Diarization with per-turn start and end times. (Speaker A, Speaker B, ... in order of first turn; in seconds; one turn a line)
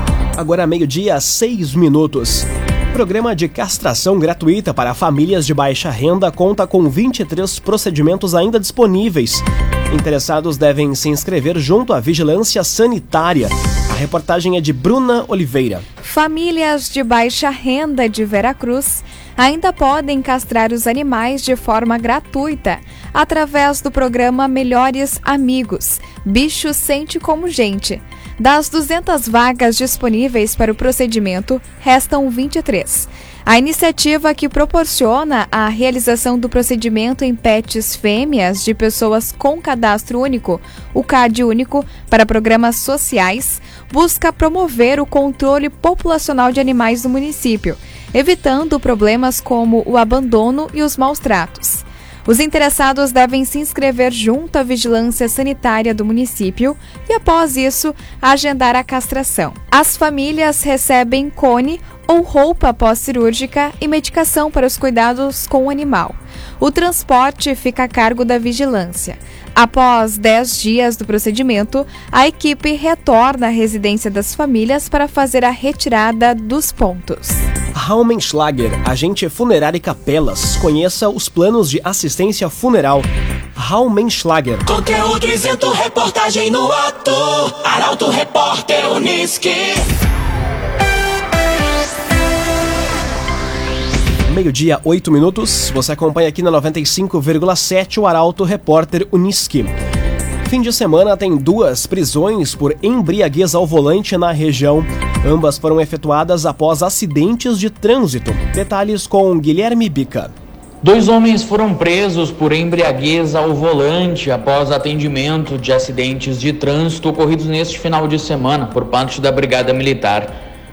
Speaker A: 0.4-15.8
Speaker B: 16.0-77.4
Speaker A: 77.8-84.7
Speaker C: 84.7-89.8
Speaker A: 94.3-99.7
Speaker A: 100.5-110.3
Speaker D: 110.8-120.3